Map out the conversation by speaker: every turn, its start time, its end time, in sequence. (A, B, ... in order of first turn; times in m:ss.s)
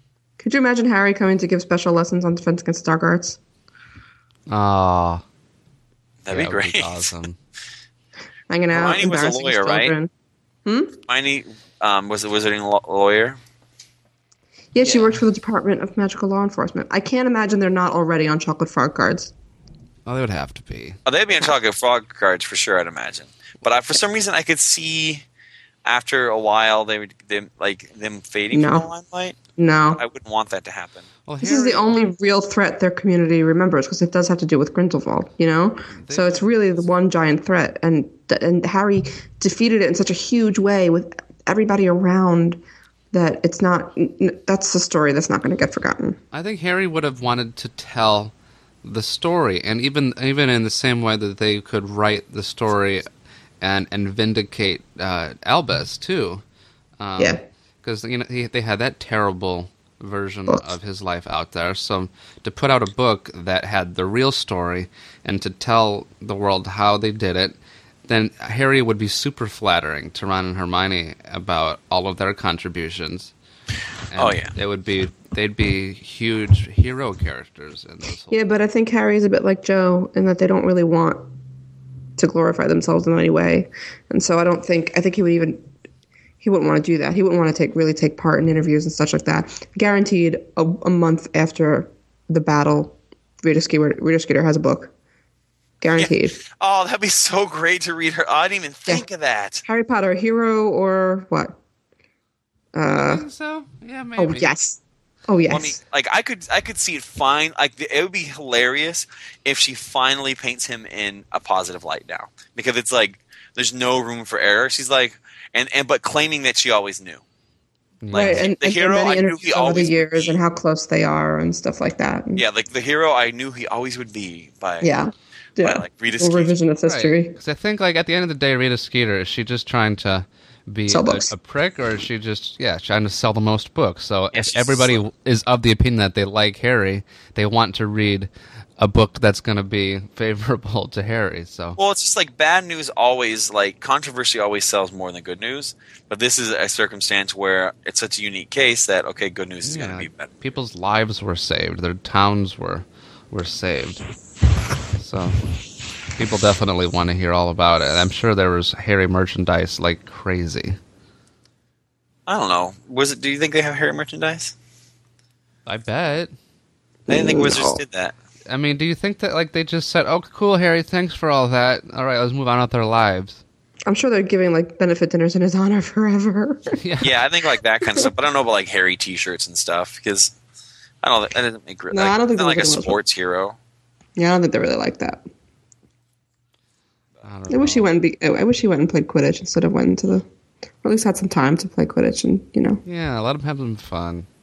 0:00.4-0:03.4 A
0:04.5-0:05.2 B
0:06.2-0:07.1 C
0:06.3-0:07.4 B
0:08.5-0:10.1 A
0:08.7-0:09.9 C
0:10.7-0:11.0 A
0:11.1-0:13.4 C
0:14.7-0:19.3 A
0:14.8-0:15.1 C
0:20.1-0:21.0 B
0:21.1-0:25.2 C
0:25.8-0:29.4 C
0:28.5-0:28.9 A
0:29.6-0:30.0 A
0:30.0-0:31.1 C
0:31.3-0:32.0 B
0:31.4-0:42.6 A
0:35.9-0:36.8 B
0:43.1-0:46.2 A
0:46.3-0:53.1 B
0:53.6-0:56.4 B
0:57.0-1:13.3 B
1:14.1-1:18.4 B
1:14.2-1:14.5 C
1:18.3-1:21.3 A
1:22.2-1:25.6 A
1:26.4-1:34.9 A
1:35.8-1:36.4 A
1:36.0-1:39.6 C
1:39.6-1:41.6 A
1:42.7-1:43.3 A
1:42.9-1:44.5 B
1:44.2-1:45.8 A
1:45.5-1:57.2 C
1:58.0-1:58.5 B
1:58.1-2:00.4 C
1:58.1-2:02.4 A
2:02.4-2:04.9 C
2:04.8-2:07.4 A
2:05.6-2:06.6 C
2:06.8-2:21.8 B
2:10.9-2:11.3 A
2:14.3-2:15.0 C
2:21.8-2:30.4 C
2:29.6-2:34.0 B
2:34.9-2:35.4 B
2:36.2-2:40.8 B
2:42.3-2:44.5 C
2:45.7-2:46.4 B
2:47.1-2:47.8 A
2:47.1-2:48.1 C
2:48.5-2:53.4 B
2:53.9-2:56.8 A
2:56.8-2:57.2 B
2:57.0-3:00.3 C
3:01.0-3:03.6 C
3:01.9-3:03.0 A
3:04.2-3:05.2 A
3:07.2-3:07.9 B
3:07.5-3:10.3 A
3:10.8-3:12.8 A
3:12.8-3:14.3 B